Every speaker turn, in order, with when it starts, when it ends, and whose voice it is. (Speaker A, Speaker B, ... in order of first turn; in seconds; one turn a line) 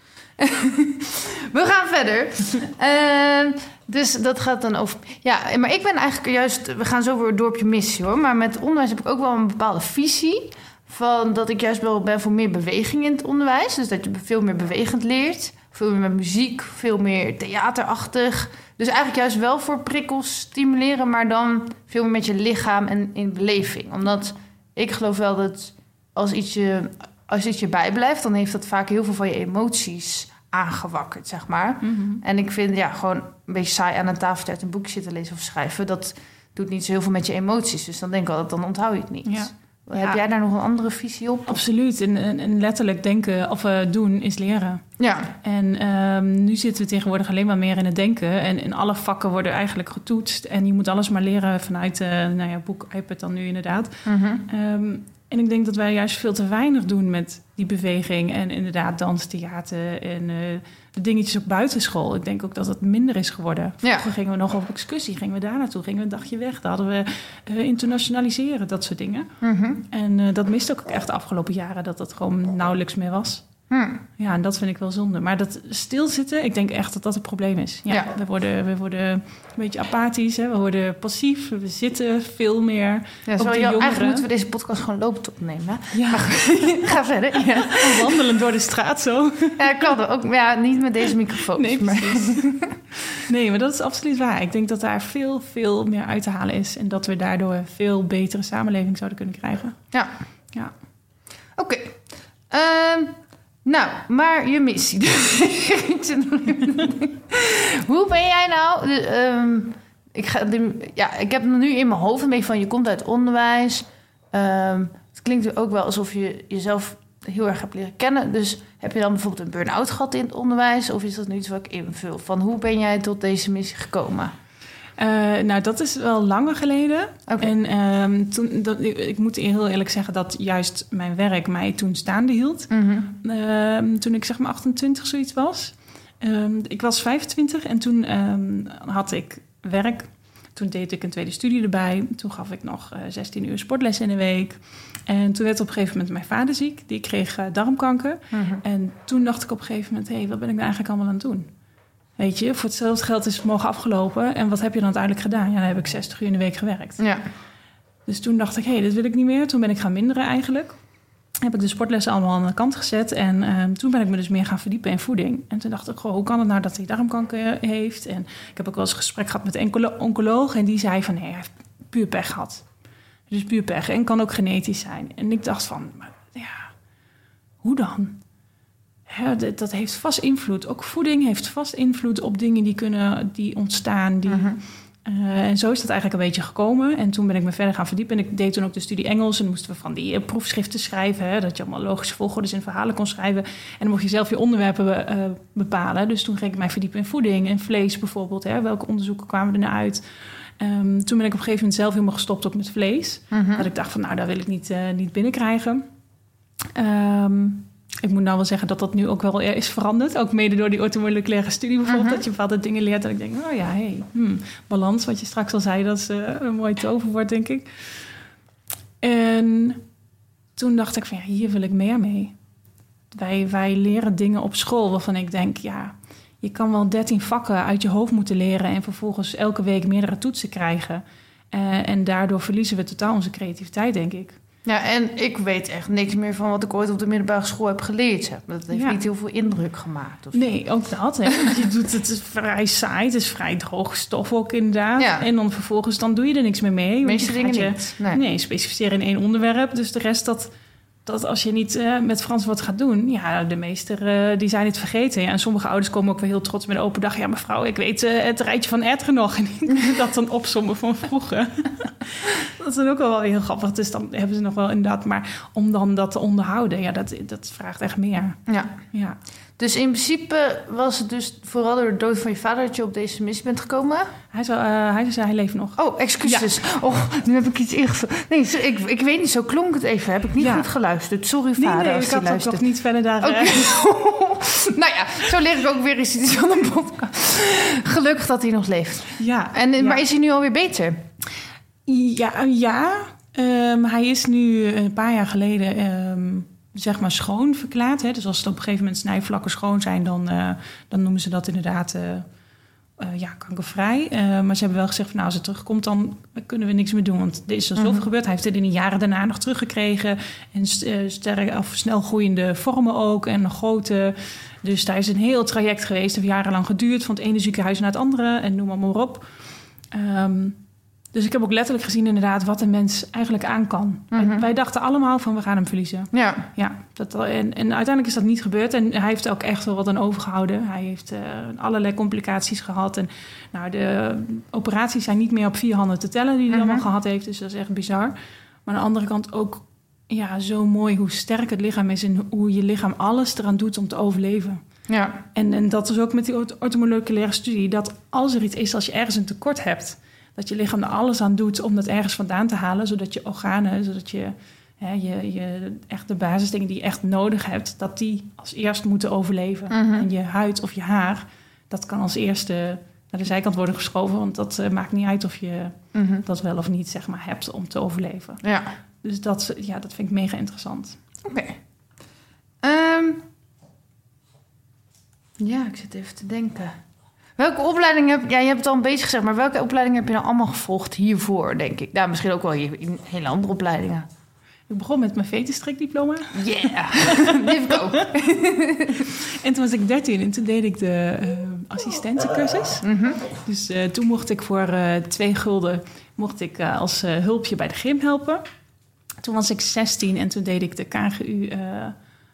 Speaker A: 0.4-41.6
Speaker B: 31.8-32.2
Speaker B: 39.2-40.2
Speaker B: 41.5-44.8
Speaker A: 45.0-45.3
Speaker B: 45.4-69.3
Speaker A: 54.0-54.4
Speaker A: 69.4-69.8
Speaker B: 69.9-73.5
Speaker A: 73.7-74.0
Speaker B: 74.2-84.2
Speaker A: 83.2-88.1
Speaker B: 85.9-86.9
Speaker B: 87.6-89.9
Speaker A: 89.6-92.8
Speaker B: 91.5-99.8
Speaker A: 101.5-124.3
Speaker B: 125.0-151.5
Speaker A: 132.7-133.1
Speaker A: 148.3-148.6
Speaker B: 152.2-157.0
Speaker A: 157.0-157.2
Speaker B: 158.1-160.8
Speaker B: 161.4-172.6
Speaker B: 173.3-176.7
Speaker B: 177.6-178.2
Speaker B: 179.1-205.8
Speaker A: 184.3-184.6
Speaker A: 203.3-203.7
Speaker B: 206.7-218.1
Speaker A: 211.9-212.2
Speaker B: 219.0-219.8
Speaker B: 220.6-222.3
Speaker B: 223.1-234.4
Speaker A: 234.6-240.4
Speaker B: 238.7-239.0
Speaker B: 240.3-250.5
Speaker A: 245.0-245.2
Speaker A: 247.0-248.2
Speaker B: 251.0-268.4
Speaker A: 268.5-268.7
Speaker B: 268.9-269.2
Speaker A: 269.6-274.1
Speaker B: 274.3-276.5
Speaker A: 275.8-282.6
Speaker B: 280.4-280.7
Speaker B: 281.6-283.7
Speaker A: 283.2-291.0
Speaker B: 289.2-290.0
Speaker B: 291.9-302.3
Speaker B: 303.0-319.3
Speaker A: 307.8-308.0
Speaker B: 319.9-320.6
Speaker B: 321.1-344.6
Speaker A: 324.1-324.4
Speaker A: 326.1-326.5
Speaker A: 336.5-336.8
Speaker A: 344.9-345.2
Speaker B: 345.3-368.4
Speaker A: 359.7-360.1
Speaker A: 365.9-366.2
Speaker A: 368.4-368.7
Speaker B: 369.0-371.0
Speaker A: 371.2-371.6
Speaker A: 372.6-373.2
Speaker A: 375.4-376.8
Speaker A: 377.4-384.1
Speaker B: 384.7-388.1
Speaker A: 386.3-389.1
Speaker B: 389.1-392.9
Speaker A: 392.8-393.2
Speaker B: 393.4-398.4
Speaker B: 399.2-401.9